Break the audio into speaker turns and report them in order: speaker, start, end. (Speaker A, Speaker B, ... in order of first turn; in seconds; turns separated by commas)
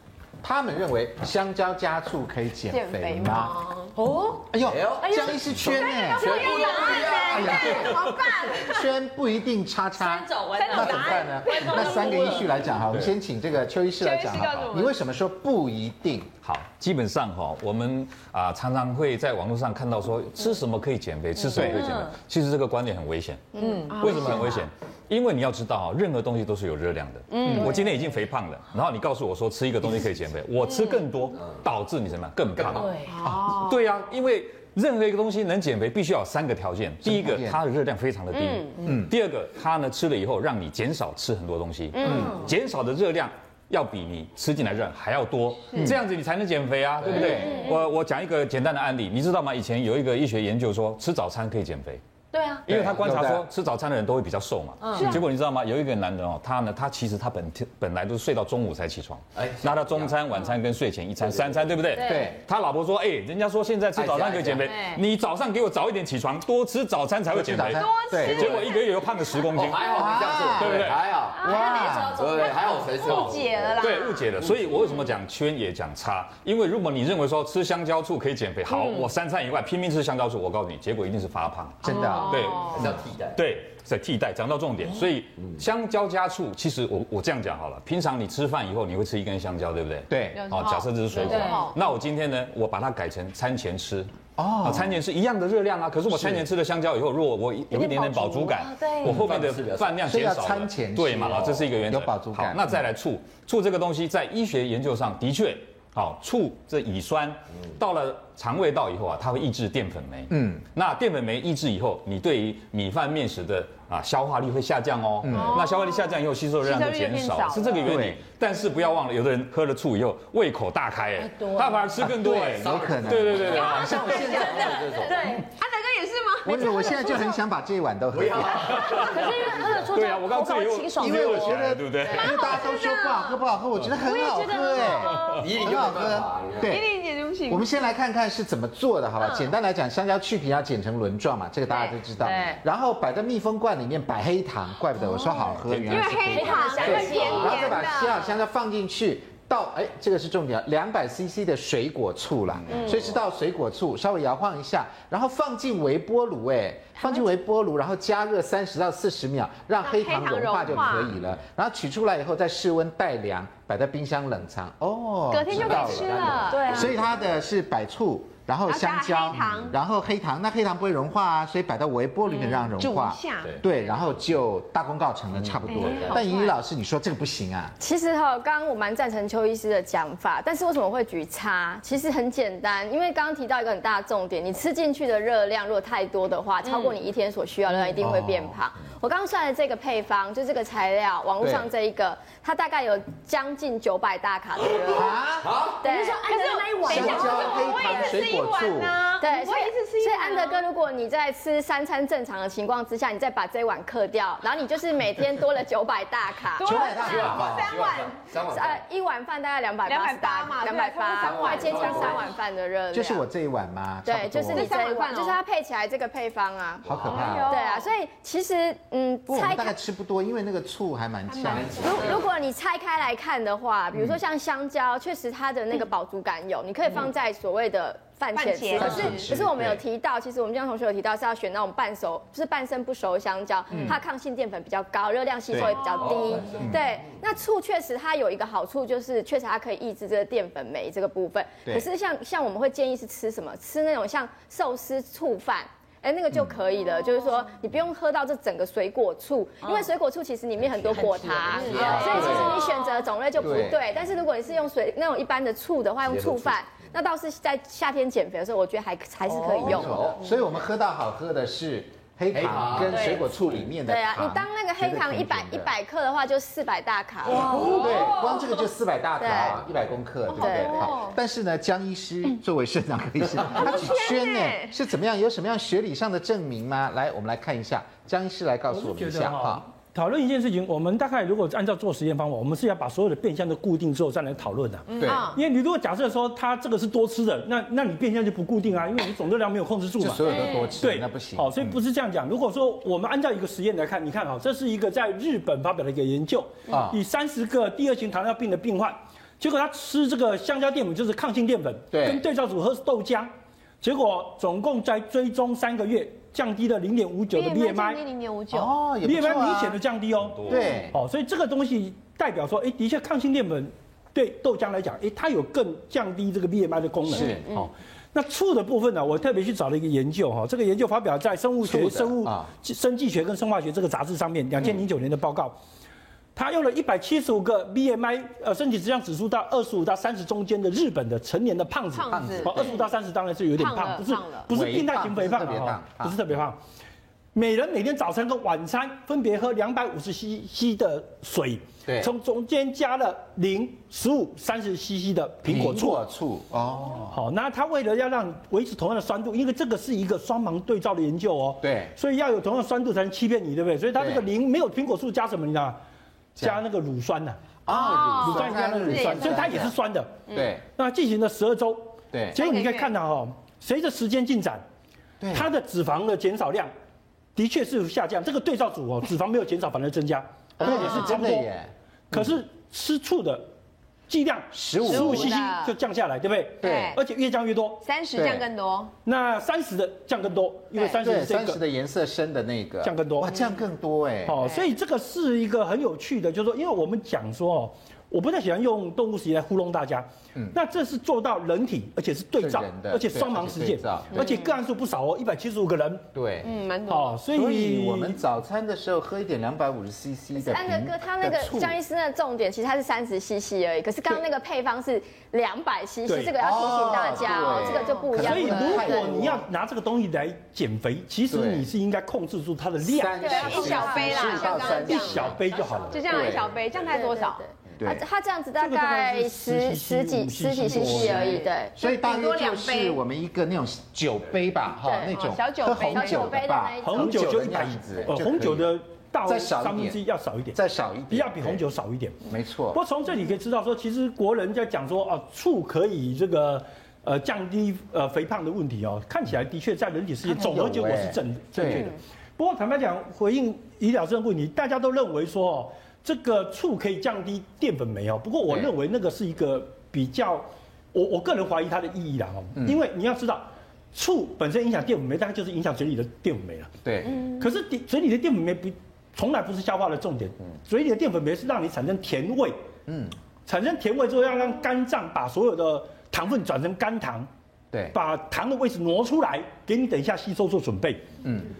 Speaker A: 0.4-3.6, Speaker B: 2.7-4.0, Speaker C: 4.0-4.5, Speaker A: 4.5-6.5, Speaker D: 4.5-8.0, Speaker B: 5.2-8.9, Speaker C: 6.4-7.1, Speaker A: 7.2-16.3, Speaker C: 10.0-12.5, Speaker B: 10.5-12.6, Speaker B: 14.0-15.0, Speaker E: 16.4-52.0, Speaker C: 21.5-22.1, Speaker A: 21.6-21.8, Speaker B: 23.6-24.7, Speaker C: 23.6-24.1, Speaker B: 27.3-27.9, Speaker A: 27.4-27.7, Speaker D: 32.5-32.9, Speaker C: 32.8-33.1, Speaker B: 33.0-33.9, Speaker A: 37.0-37.6, Speaker B: 38.3-38.8, Speaker A: 38.8-39.1, Speaker B: 41.9-42.3, Speaker A: 42.0-42.4, Speaker C: 42.1-42.4, Speaker D: 47.0-47.3, Speaker A: 47.1-47.5, Speaker C: 47.2-47.7, Speaker B: 47.3-47.8, Speaker C: 52.3-52.6, Speaker E: 52.7-71.0, Speaker A: 52.7-53.5, Speaker C: 54.8-55.2, Speaker B: 54.9-55.2, Speaker D: 59.4-60.2, Speaker D: 61.2-61.8, Speaker C: 62.0-62.2, Speaker A: 62.0-62.4, Speaker D: 63.9-64.8, Speaker C: 64.7-65.0, Speaker A: 67.3-68.6, Speaker B: 67.7-69.3, Speaker D: 69.5-74.8, Speaker A: 69.9-72.2, Speaker C: 71.3-73.3, Speaker B: 72.3-74.3, Speaker E: 73.8-94.1, Speaker C: 78.7-79.0, Speaker A: 81.8-82.4, Speaker B: 81.8-82.8, Speaker D: 82.5-83.4, Speaker A: 90.1-90.5, Speaker B: 90.3-91.8, Speaker C: 91.2-91.7, Speaker A: 94.4-95.0, Speaker E: 94.6-124.3, Speaker A: 96.1-96.4, Speaker C: 97.7-99.3, Speaker D: 99.0-100.0, Speaker A: 100.0-102.8, Speaker A: 110.3-110.6, Speaker A: 115.2-115.6, Speaker B: 115.3-118.0, Speaker A: 117.8-118.2, Speaker C: 121.2-121.9, Speaker A: 122.0-124.9, Speaker D: 122.5-125.3, Speaker C: 123.6-125.5, Speaker B: 125.5-127.4, Speaker A: 126.4-128.9, Speaker D: 128.1-130.0, Speaker E: 128.7-132.6, Speaker C: 129.0-131.6, Speaker A: 131.0-136.9, Speaker B: 132.1-133.3, Speaker C: 132.3-132.6, Speaker C: 133.9-135.5, Speaker E: 135.1-135.4, Speaker D: 135.3-136.8, Speaker B: 136.7-137.7, Speaker A: 137.5-177.8, Speaker B: 139.2-139.5, Speaker C: 142.2-142.6, Speaker E: 145.6-146.5, Speaker B: 145.8-148.4, Speaker C: 146.3-147.8, Speaker B: 152.7-153.1, Speaker B: 159.8-161.1, Speaker B: 165.3-167.0, Speaker D: 165.5-166.8, Speaker C: 166.5-166.9, Speaker B: 168.7-169.7, Speaker B: 172.3-173.8, Speaker B: 175.7-176.6, Speaker F: 177.8-195.2, Speaker A: 187.9-188.6, Speaker A: 191.4-191.7, Speaker A: 194.9-195.6, Speaker D: 195.4-195.9, Speaker F: 195.8-196.5, Speaker B: 195.8-200.6, Speaker C: 195.9-197.5, Speaker A: 196.8-199.0, Speaker F: 197.1-197.7, Speaker F: 199.2-207.4, Speaker B: 206.6-208.2, Speaker A: 206.6-207.8, Speaker D: 207.0-208.8, Speaker F: 208.5-213.2, Speaker B: 209.8-212.3, Speaker D: 211.2-212.3, Speaker A: 212.9-214.7, Speaker F: 214.0-216.9, Speaker B: 214.5-215.4, Speaker A: 216.8-217.6, Speaker D: 216.9-217.3, Speaker B: 217.0-217.9, Speaker F: 217.4-219.8, Speaker A: 219.3-222.1, Speaker B: 221.3-222.1, Speaker D: 221.5-222.2, Speaker F: 221.8-260.0, Speaker B: 228.3-229.3, Speaker A: 228.8-229.8, Speaker A: 233.7-234.0, Speaker A: 235.5-235.8, Speaker B: 235.6-236.4, Speaker D: 235.9-236.7, Speaker C: 250.8-252.5, Speaker D: 251.4-252.5, Speaker A: 251.6-252.6, Speaker B: 251.6-253.1, Speaker A: 253.4-253.8, Speaker D: 256.0-256.6, Speaker C: 259.3-259.7, Speaker A: 259.6-265.7, Speaker D: 259.7-260.2, Speaker D: 262.3-263.6, Speaker F: 263.9-267.8, Speaker A: 267.3-279.6, Speaker C: 267.4-267.8, Speaker B: 267.5-268.6, Speaker F: 269.2-269.6, Speaker B: 270.3-271.2, Speaker F: 270.3-271.0, Speaker B: 273.5-274.8, Speaker G: 278.7-308.0, Speaker B: 284.9-285.4, Speaker A: 285.0-285.3, Speaker A: 290.0-291.8, Speaker B: 290.2-290.7, Speaker A: 296.7-297.0, Speaker A: 301.9-302.2, Speaker B: 307.3-308.7, Speaker A: 308.5-309.8, Speaker G: 309.0-325.6, Speaker E: 310.2-310.7, Speaker A: 310.4-311.0, Speaker B: 310.5-310.8, Speaker A: 317.1-317.5, Speaker B: 317.2-317.7, Speaker A: 321.6-322.5, Speaker G: 326.3-336.6, Speaker B: 331.9-332.9, Speaker A: 332.1-332.7, Speaker B: 333.5-334.5, Speaker A: 334.5-336.2, Speaker G: 337.3-346.0, Speaker A: 341.9-342.1, Speaker A: 345.4-347.2, Speaker G: 347.1-355.8, Speaker A: 351.6-351.9, Speaker A: 353.9-354.2, Speaker A: 356.4-356.6, Speaker G: 356.4-364.6, Speaker A: 357.6-359.8, Speaker B: 357.7-359.7, Speaker A: 360.3-360.6, Speaker A: 362.1-362.4, Speaker B: 362.3-362.9, Speaker A: 365.2-365.5, Speaker G: 365.3-366.7, Speaker G: 367.4-371.5, Speaker A: 370.6-372.3, Speaker B: 370.6-371.3, Speaker G: 372.1-373.5, Speaker G: 374.1-377.8, Speaker A: 374.5-375.4, Speaker B: 374.8-375.7, Speaker A: 376.6-377.0, Speaker B: 376.6-377.0, Speaker B: 377.8-378.9, Speaker A: 378.1-378.4, Speaker G: 379.0-381.6, Speaker A: 381.0-384.4, Speaker G: 382.8-383.4, Speaker G: 384.2-396.1, Speaker B: 384.4-384.7, Speaker A: 392.4-394.3, Speaker B: 394.1-394.6, Speaker A: 396.1-396.6, Speaker B: 396.4-397.2, Speaker G: 396.9-398.2, Speaker A: 397.3-401.8, Speaker F: 400.4-409.2, Speaker G: 406.1-406.3, Speaker A: 406.4-409.4, Speaker B: 407.3-408.1, Speaker G: 408.1-416.1, Speaker A: 411.3-411.7, Speaker A: 412.8-415.4, Speaker F: 413.2-414.9, Speaker B: 413.2-417.4, Speaker A: 416.0-416.5, Speaker F: 416.9-421.8, Speaker A: 417.8-418.0, Speaker G: 418.6-421.4, Speaker B: 420.7-423.0, Speaker A: 421.8-428.7, Speaker F: 424.8-425.1, Speaker B: 425.1-426.4, Speaker F: 425.9-427.3, Speaker G: 426.8-430.6, Speaker A: 429.2-430.0, Speaker A: 430.5-431.6, Speaker G: 431.1-462.6, Speaker A: 432.2-432.8, Speaker A: 440.2-441.9, Speaker A: 456.8-457.2, Speaker A: 462.9-463.1, Speaker G: 463.4-467.3, Speaker G: 467.9-471.1, Speaker A: 471.2-471.5